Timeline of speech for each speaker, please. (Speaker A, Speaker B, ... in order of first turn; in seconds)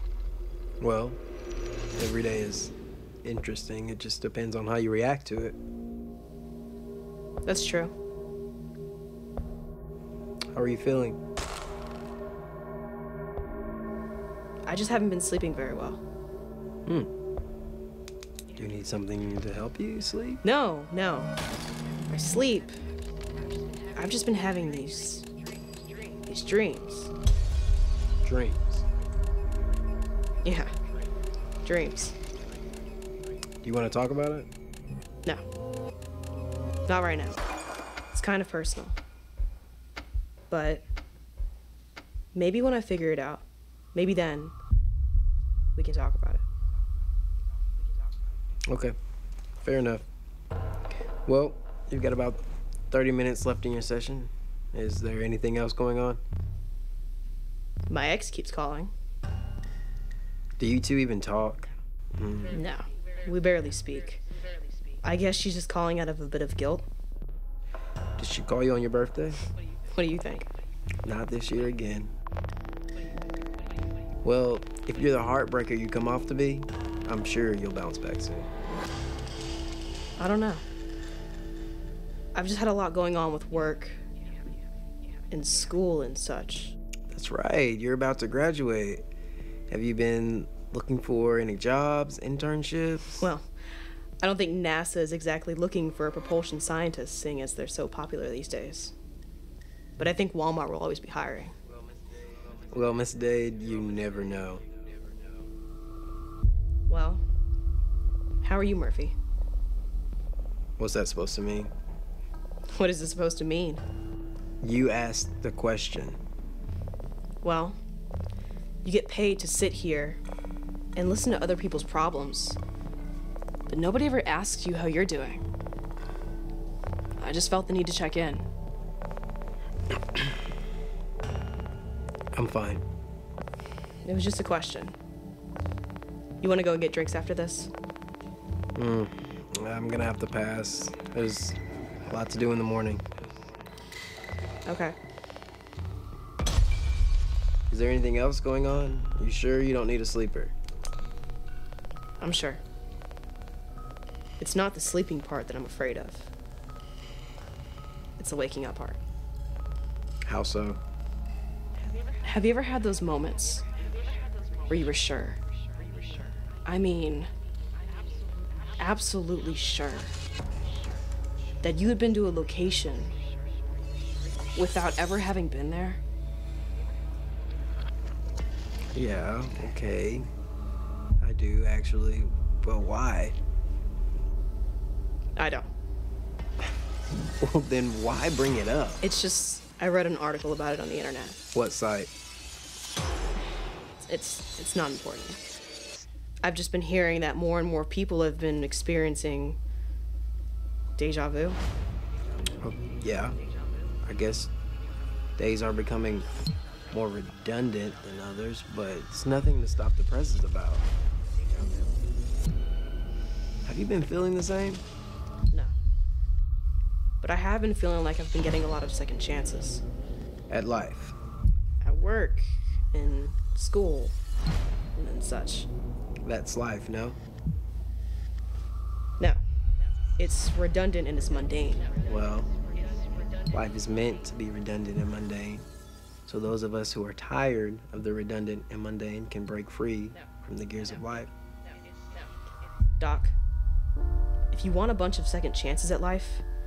Speaker A: 0.8-1.2, 1.9-2.7, 3.2-5.6, 10.5-11.2, 18.5-20.4, 28.2-28.8, 33.6-34.5, 48.7-49.0, 49.6-50.0, 51.3-56.2, 60.6-62.6, 68.2-69.5, 71.0-72.1, 74.2-78.5, 87.1-89.0, 89.7-93.3, 102.5-104.7, 110.8-111.7, 114.6-116.2, 132.3-132.8, 138.7-143.0, 147.7-150.5, 160.2-160.8, 178.9-180.3, 181.2-183.4, 187.4-189.0, 191.5-192.1, 202.6-203.4, 204.0-204.5, 205.4-206.3, 206.9-210.9, 213.6-214.8, 220.5-221.2, 226.2-227.2, 232.1-232.5, 233.5-235.7, 236.2-241.3
Speaker B: 7.5-7.9, 14.7-16.0, 20.4-21.3, 22.1-22.8, 23.9-25.3, 26.2-27.1, 30.4-30.7, 31.6-32.1, 36.9-37.4, 38.1-39.0, 40.5-40.8, 42.3-44.5, 45.8-46.4, 57.9-58.9, 62.5-64.2, 65.0-66.8, 69.9-70.5, 80.2-80.6, 82.3-84.0, 85.3-86.7, 93.2-93.5, 94.2-98.9, 100.0-101.5, 106.9-107.2, 108.4-109.1, 112.7-113.8, 117.4-117.8, 118.8-120.2, 121.0-122.6, 123.7-125.4, 127.2-128.4, 134.0-134.9, 136.4-137.7, 144.7-144.9, 152.2-152.6, 154.4-156.3, 158.2-159.0, 162.2-163.7, 164.7-165.4, 166.6-167.3, 168.8-170.1, 171.6-173.1, 174.5-176.0, 185.3-185.7, 189.0-191.4, 194.0-195.4, 196.4-199.6, 201.0-201.6, 217.2-219.8, 221.8-224.2, 224.9-225.7, 230.2-231.9, 243.0-243.3, 244.5-246.4